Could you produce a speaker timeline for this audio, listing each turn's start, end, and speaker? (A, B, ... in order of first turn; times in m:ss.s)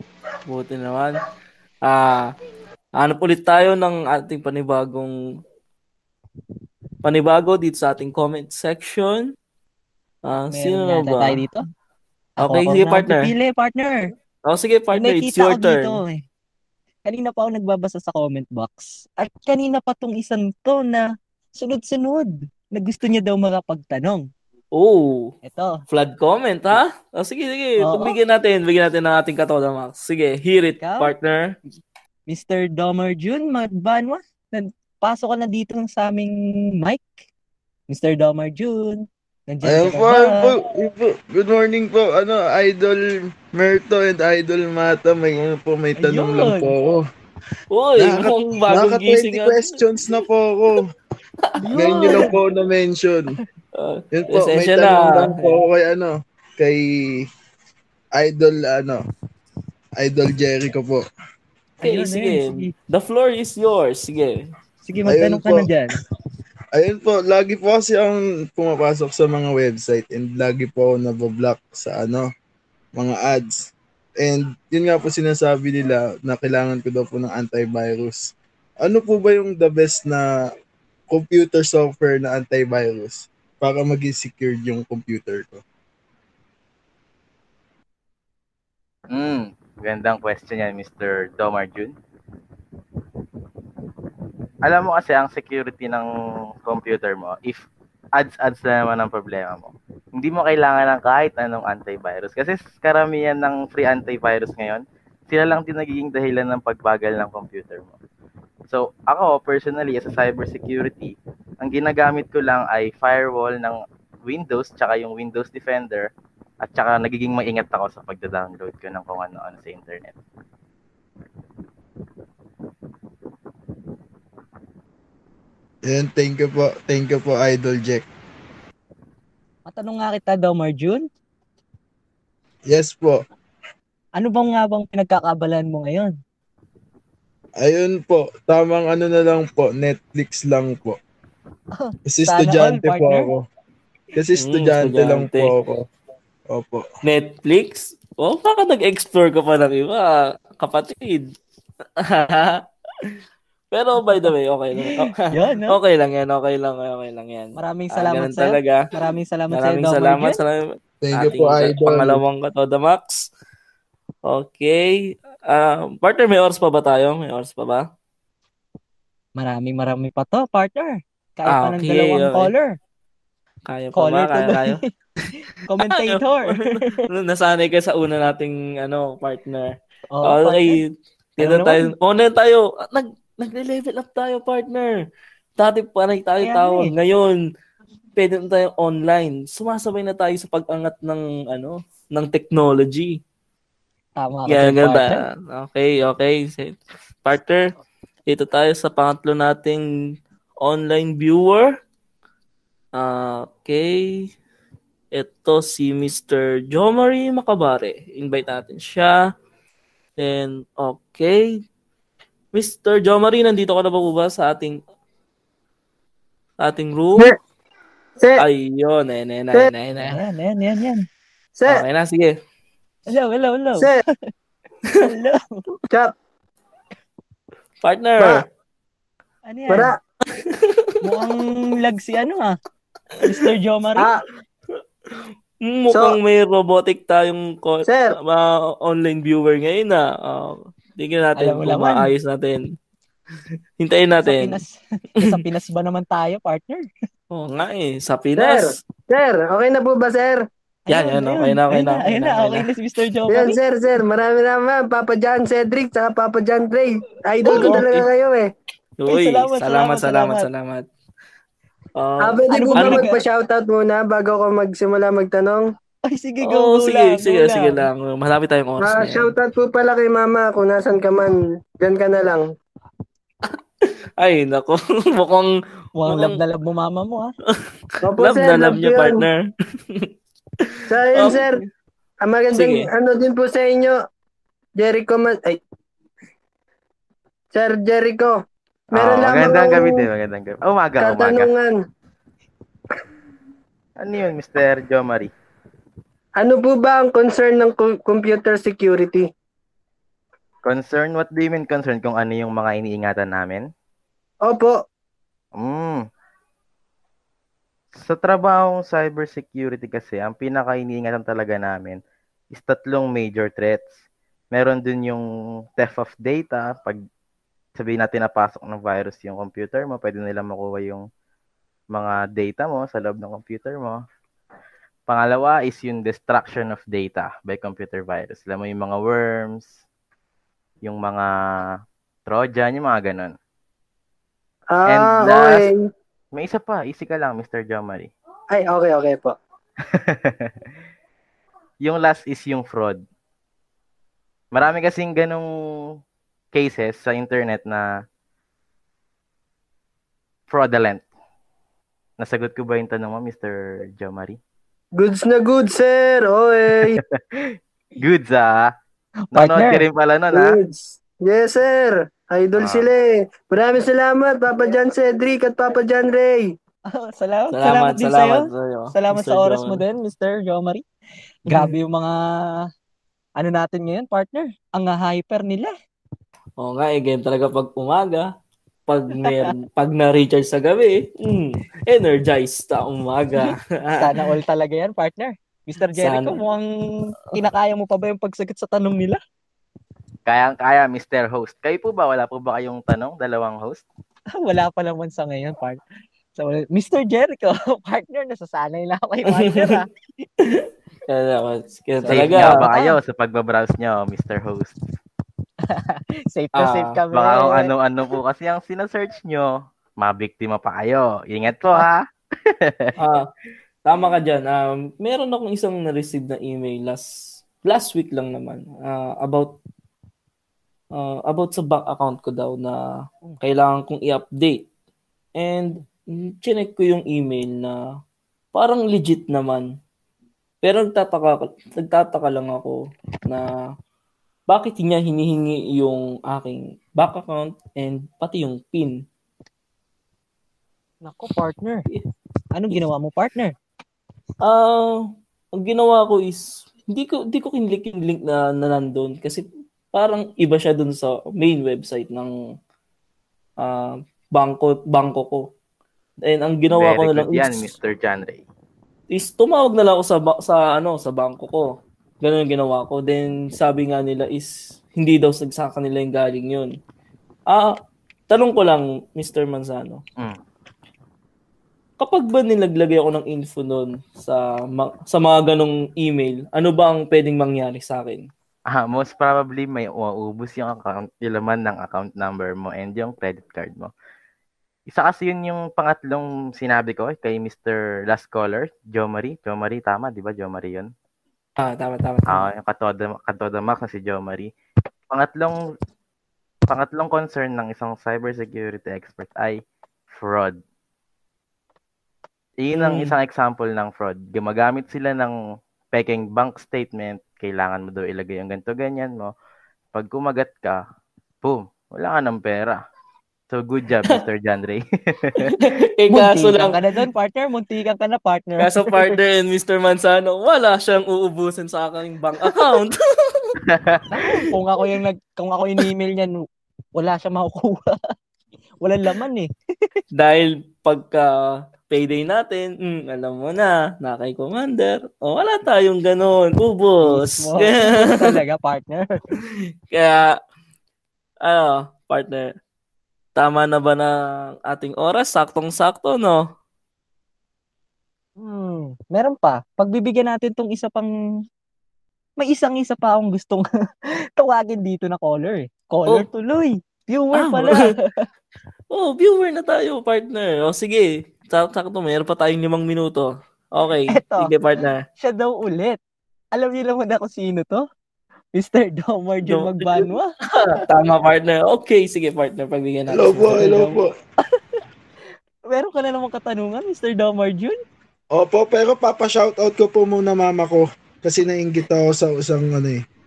0:00.5-0:01.2 A
0:01.8-0:02.3 A
0:03.0-0:05.2 A
0:07.0-0:09.3 A
0:10.2-0:11.4 A
0:10.4-0:11.6 B
0:12.4-0:14.1 B
0:12.4-0:13.3 A
0:14.5-0:16.0 A
0:14.9-0:16.2 B
0:17.0-0:21.0 B
0:21.6-0:24.3 B
0:24.7-0:25.3 A
0:25.4-0:25.8 B
0:25.9-0:31.6 A
0:27.8-0:28.1 B
0:30.8-0:31.1 B
0:32.3-0:37.1 B
0:37.9-0:40.5 B
0:39.6-0:47.0 C
0:46.0-0:46.7 B
0:47.7-0:49.8 A
0:48.0-0:50.9 C
0:51.6-0:52.3 B
0:51.8-0:53.3 C
0:52.0-0:52.3 A
0:53.8-0:55.5 A
0:54.1-0:57.3 C
0:58.2-0:59.0 C
1:00.0-1:01.0 C
1:01.8-1:02.7 B
1:01.8-1:04.4 A
1:04.8-1:06.0 B
1:05.1-1:05.7 C
1:06.7-1:12.3 C
1:13.0-1:18.2 C
1:18.8-1:20.3 C
1:21.1-1:25.6 C
1:29.1-1:31.9 D
1:34.6-1:36.1 D
1:36.6-1:37.6 D
1:38.2-1:47.9 D
1:48.7-1:56.1 D
1:56.6-2:00.1 D
2:05.8-2:08.0 C
2:09.7-2:11.0 B
2:12.7-2:13.2 C
2:14.2-2:16.2 B
2:17.6-2:21.0 C
2:21.8-2:23.3 B
2:22.1-2:23.4 C
2:24.1-2:25.8 C
2:24.4-2:25.5 A
2:26.5-2:26.8 C
2:27.0-2:31.3 A
2:32.0-2:33.1 A
2:33.7-2:38.8 A
2:34.0-2:35.8 B
2:37.6-2:40.4 B
2:39.5-2:43.2 A
2:41.0-2:42.2 C
2:44.3-2:44.9 A
2:45.5-2:47.8 A
2:49.4-2:52.8 B
2:51.5-2:52.5 A
2:53.7-2:54.8 A
2:54.0-2:54.8 B
2:55.6-2:56.9 B
2:55.9-3:00.8 A
3:00.1-3:00.8 B
3:01.4-3:05.0 A
3:01.4-3:01.9 B
3:05.6-3:07.4 A
3:06.4-3:06.9 B
3:08.2-3:13.2 A
3:14.2-3:15.2 B
3:14.5-3:17.7 A
3:18.3-3:19.8 A
3:20.6-3:21.7 A
3:23.0-3:24.3 A
3:25.1-3:29.2 A
3:30.2-3:31.5 A
3:32.5-3:34.8 A
3:36.6-3:37.3 A
3:38.2-3:38.4 E
3:38.4-3:40.2 A
3:40.0-3:41.0 B
3:41.6-3:41.8 E
3:41.7-3:42.3 A
3:43.1-3:43.9 B
3:45.0-3:45.6 B
3:47.8-3:48.4 A
3:48.2-3:48.4 E
3:49.5-3:49.9 B
3:49.7-3:50.0 E
3:50.4-3:50.9 A
3:51.0-3:52.6 B
3:53.2-3:54.1 B
3:55.6-4:02.6 A
3:55.9-3:56.2 E
3:57.8-3:58.2 E
4:01.4-4:02.1 B
4:03.8-4:04.6 A
4:04.2-4:06.8 B
4:07.3-4:08.8 A
4:08.4-4:10.4 E
4:10.9-4:13.6 B
4:10.9-4:12.7 A
4:13.3-4:18.5 E
4:17.4-4:18.1 A
4:17.5-4:17.8 B
4:19.0-4:20.8 A
4:19.1-4:20.5 B
4:22.0-4:23.0 A
4:22.2-4:25.6 E
4:22.5-4:23.2 B
4:26.1-4:27.8 B
4:26.4-4:29.3 A
4:28.8-4:32.4 E
4:33.8-4:35.5 A
4:36.0-4:37.3 B
4:36.0-4:36.4 A
4:38.0-4:39.2 E
4:38.2-4:40.1 A
4:40.6-4:41.6 A
4:40.9-4:41.6 E
4:42.2-4:44.0 E
4:42.5-4:42.9 A
4:44.8-4:45.6 E
4:47.5-4:48.3 E
4:48.9-4:50.0 E
4:48.9-4:51.5 D
4:51.0-4:51.8 E
4:54.0-4:55.3 D
4:56.4-4:59.2 E
5:00.6-5:03.6 D
5:04.4-5:04.8 E
5:05.6-5:06.0 D
5:08.0-5:12.0 D
5:12.5-5:13.9 D
5:14.5-5:15.2 D
5:15.8-5:17.0 D
5:17.8-5:21.0 D
5:21.9-5:24.0 D
5:25.1-5:29.7 D
5:30.8-5:31.3 D
5:32.3-5:33.3 D
5:34.7-5:35.8 E
5:34.9-5:35.6 D
5:36.3-5:38.1 D
5:38.5-5:39.3 E
5:39.9-5:40.5 D
5:41.8-5:43.0 D
5:44.5-5:45.5 D
5:46.5-5:47.9 D
5:50.5-5:51.0 D
5:52.2-5:54.4 D
5:55.0-5:57.0 E
5:56.8-5:57.5 D
5:58.0-5:58.7 D
5:59.3-5:59.8 B
5:59.3-6:00.6 D
6:00.3-6:06.5 E
6:02.6-6:02.9 D
6:06.9-6:10.8 B
6:07.5-6:09.8 A
6:11.5-6:12.2 B
6:13.4-6:15.7 B
6:16.6-6:18.3 A
6:18.9-6:24.1 A
6:19.2-6:19.5 B
6:23.4-6:29.2 B
6:25.9-6:26.4 A
6:30.2-6:33.8 D
6:34.4-6:35.8 B
6:36.4-6:39.9 B
6:39.3-6:39.7 A
6:40.4-6:42.5 A
6:42.0-6:43.0 B
6:42.1-6:44.8 D
6:45.7-6:47.7 B
6:46.6-6:47.0 A
6:47.1-6:52.9 D
6:53.0-6:53.2 A
6:53.8-6:57.1 A
6:57.6-6:59.5 A
7:01.0-7:02.8 A
7:03.4-7:04.6 A
7:05.4-7:07.8 A
7:08.5-7:09.7 A
7:10.6-7:12.8 A
7:14.5-7:18.9 A
7:21.0-7:21.8 B
7:22.5-7:23.5 B
7:24.4-7:25.0 A
7:25.6-7:32.3 A
7:33.6-7:35.4 A
7:36.3-7:37.7 A
7:36.7-7:38.4 D
7:39.1-7:41.6 A
7:42.2-7:46.7 A
7:48.3-7:50.0 A
7:52.0-7:58.2 A
7:58.7-8:03.9 D
8:04.9-8:10.9 D
8:11.6-8:12.5 A
8:12.3-8:14.5 D
8:15.1-8:15.6 D
8:16.7-8:19.6 D
8:20.1-8:20.6 D
8:22.6-8:25.3 D
8:22.7-8:23.1 A
8:25.9-8:29.3 D
8:29.9-8:30.8 D
8:31.4-8:32.8 D
8:33.5-8:35.5 D
8:35.4-8:36.8 A
8:36.1-8:39.2 B
8:38.6-8:43.6 A
8:42.4-8:42.6 B
8:43.7-8:44.0 D
8:44.1-8:46.3 B
8:47.0-8:48.0 B
8:48.8-8:49.5 B
8:50.1-8:51.3 A
8:51.9-8:58.3 A
8:57.0-8:59.1 B
8:59.9-9:00.3 A
9:01.4-9:02.5 A
9:03.4-9:04.1 A
9:04.6-9:06.4 A
9:08.4-9:11.1 B
9:12.4-9:13.6 B
9:14.4-9:18.0 B
9:17.4-9:17.8 A
9:18.9-9:25.0 A
9:24.1-9:24.5 B
9:25.2-9:26.0 B
9:26.5-9:27.8 B
9:28.5-9:30.8 B
9:29.4-9:33.8 A
9:33.1-9:34.1 C
9:33.5-9:34.0 B
9:35.7-9:37.8 B
9:38.3-9:43.0 C